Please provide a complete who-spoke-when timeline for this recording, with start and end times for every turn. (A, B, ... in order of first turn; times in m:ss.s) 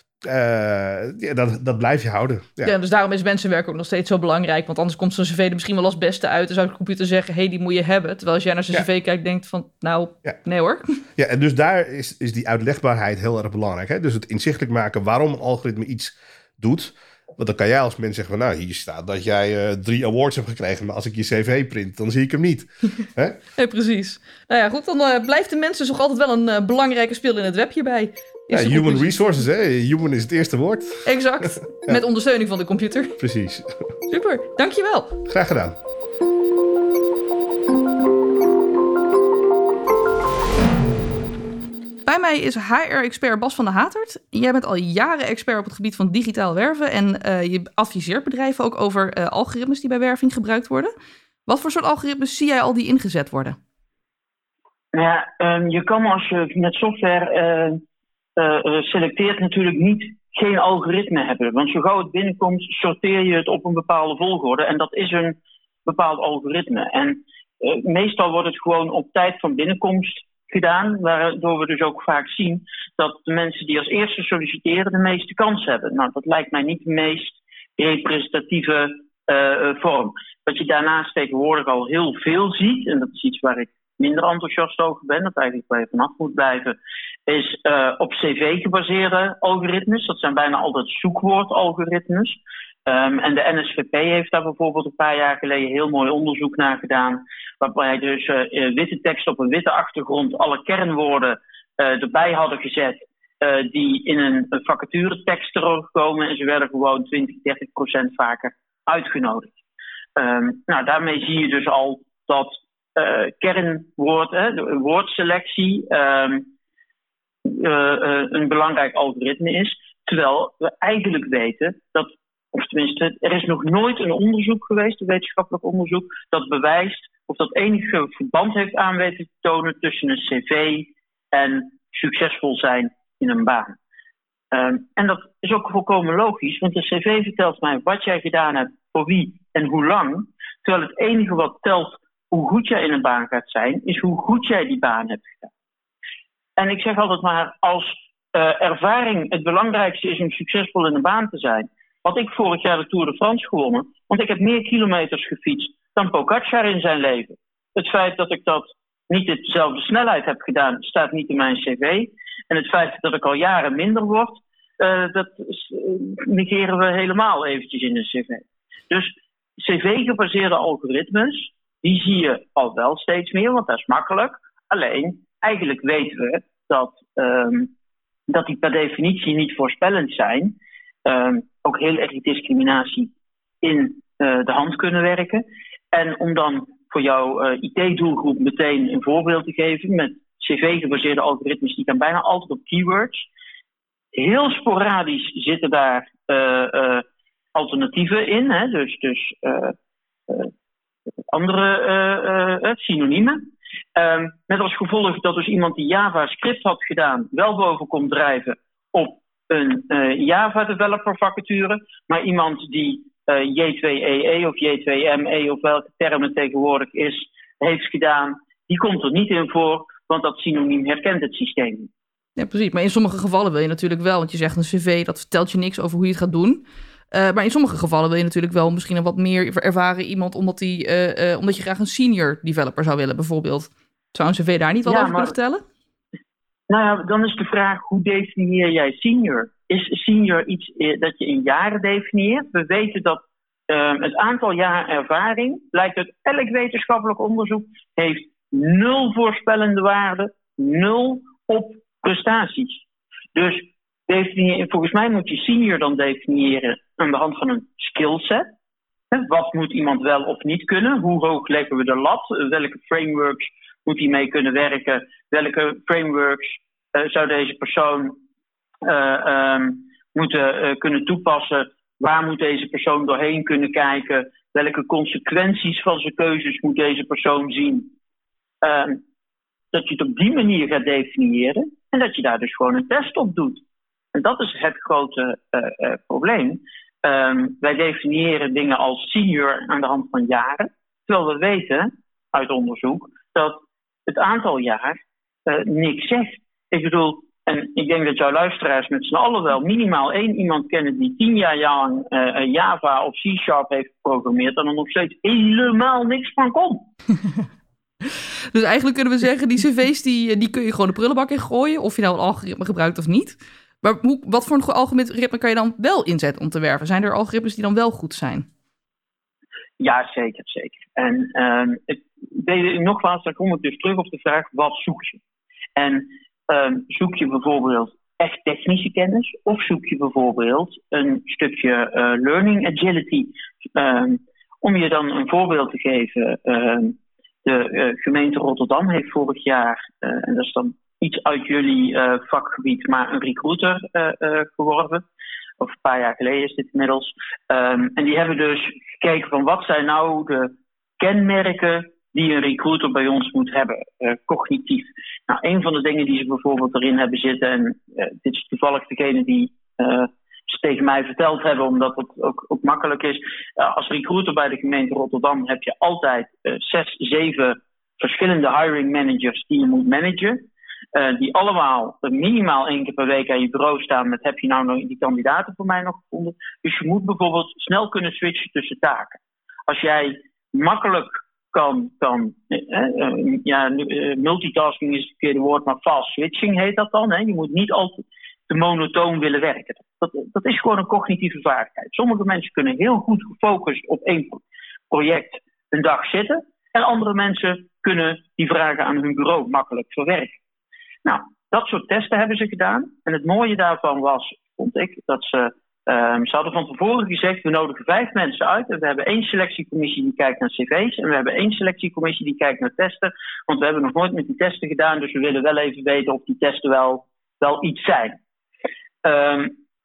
0:00.2-0:02.7 A
0:02.6-0:11.0 B
0:11.2-0:23.4 A
0:23.6-0:29.2 B
0:28.5-0:31.1 A
0:31.0-0:33.2 B
0:33.2-0:33.7 A
0:34.1-0:35.2 B
0:35.3-0:35.8 A
0:42.1-0:50.9 B
0:51.5-0:53.6 B
0:54.9-0:57.8 C
0:58.4-1:49.6 C
1:50.2-1:56.5 C
1:57.4-2:13.8 C
2:14.5-2:25.5 C
2:26.6-2:57.7 C
2:58.3-3:03.1 C
3:03.6-3:13.3 C
3:14.1-3:19.8 C
3:21.3-3:41.9 C
3:42.4-3:55.6 B
3:54.9-3:55.3 C
3:56.7-4:12.8 C
4:13.4-4:18.5 C
4:19.1-4:28.2 C
4:28.8-4:37.9 C
4:38.6-4:39.0 C
4:39.7-4:43.6 C
4:44.1-5:06.9 C
5:08.1-5:18.5 B
5:19.8-5:25.2 C
5:25.8-5:45.0 C
5:45.6-6:40.4 C
6:41.0-6:58.2 C
6:59.0-6:59.5 C